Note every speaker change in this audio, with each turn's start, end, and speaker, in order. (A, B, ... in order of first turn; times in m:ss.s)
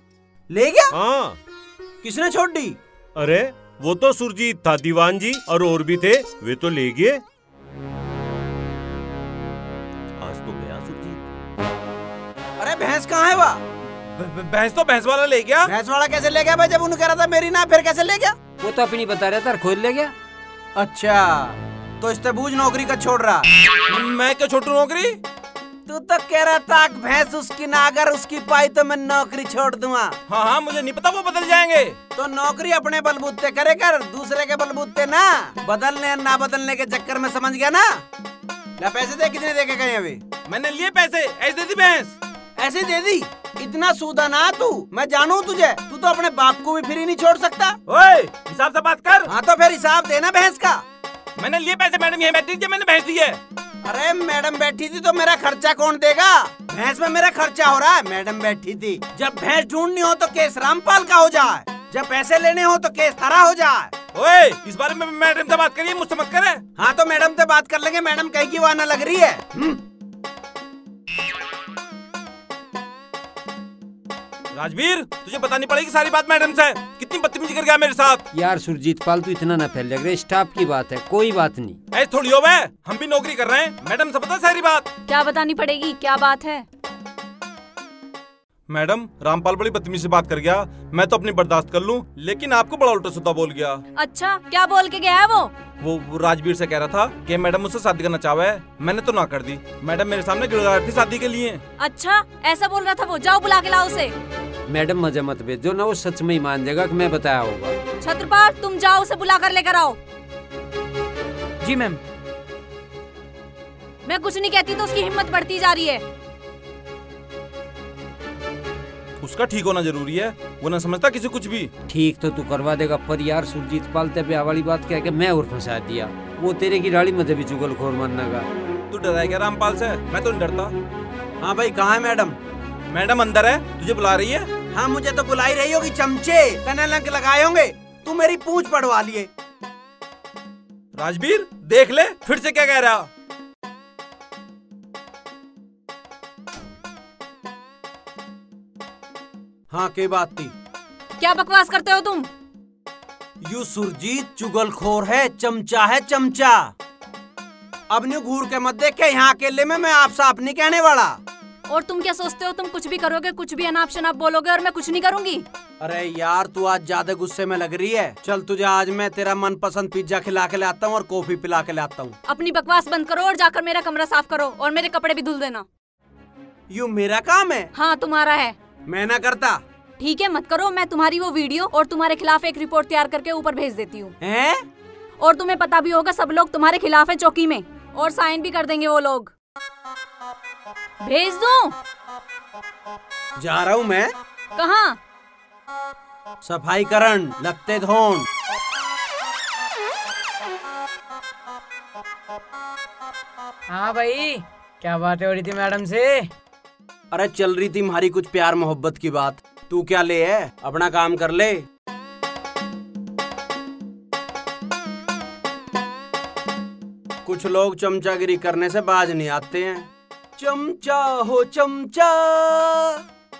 0:00.5-0:00.9 A
0:00.9-0:01.4 B
0:02.0-0:02.8 A
0:03.2-0:07.2 B
0:10.2-0:11.2 B
0:12.6-0:13.6 A
0:14.2-0:15.7 C
0:15.6-0:18.4 A
0:18.6-0:20.1 D
0:20.8-0:23.5 A
0:23.9-0:25.2 C
0:25.9-0:30.1 A
0:30.3-0:32.0 C
0:32.2-0:38.0 A
0:38.8-0:40.2 A
0:40.5-0:42.2 C
0:42.6-0:47.8 A
0:47.9-0:49.3 C
0:49.3-0:50.8 A
0:51.4-0:53.4 C
0:53.8-1:03.9 A
1:04.1-1:06.6 C
1:06.8-1:09.8 A
1:14.5-1:18.2 C
1:18.3-1:21.8 D
1:21.9-1:24.9 C
1:25.1-1:26.7 E
1:28.7-1:33.8 C
1:34.0-1:35.5 E
1:35.8-1:41.6 C
1:41.8-1:44.1 E
1:44.7-1:47.8 D
1:48.0-1:50.0 E
1:51.6-1:52.0 F
1:54.0-1:56.0 E
1:59.2-2:01.7 C
2:01.9-2:08.4 D
2:08.9-2:10.7 C
2:11.4-2:12.4 A
2:12.9-2:14.5 C
2:14.7-2:19.3 A
2:21.0-2:23.1 C
2:29.7-2:30.5 A
2:31.2-2:32.3 E
2:33.4-2:36.7 A
2:37.9-2:41.2 A
2:41.7-2:45.4 E
2:45.8-2:52.2 A
2:52.3-2:55.7 E
2:56.7-2:57.7 A
2:57.7-2:58.5 E
2:58.9-2:59.6 A
3:00.0-3:04.1 E
3:04.2-3:04.6 A
3:05.2-3:09.3 E
3:11.0-3:11.7 E
3:13.4-3:14.1 A
3:14.6-3:15.0 E
3:16.4-3:18.2 A
3:23.7-3:26.3 F
3:27.1-3:31.6 A
3:37.2-3:43.0 A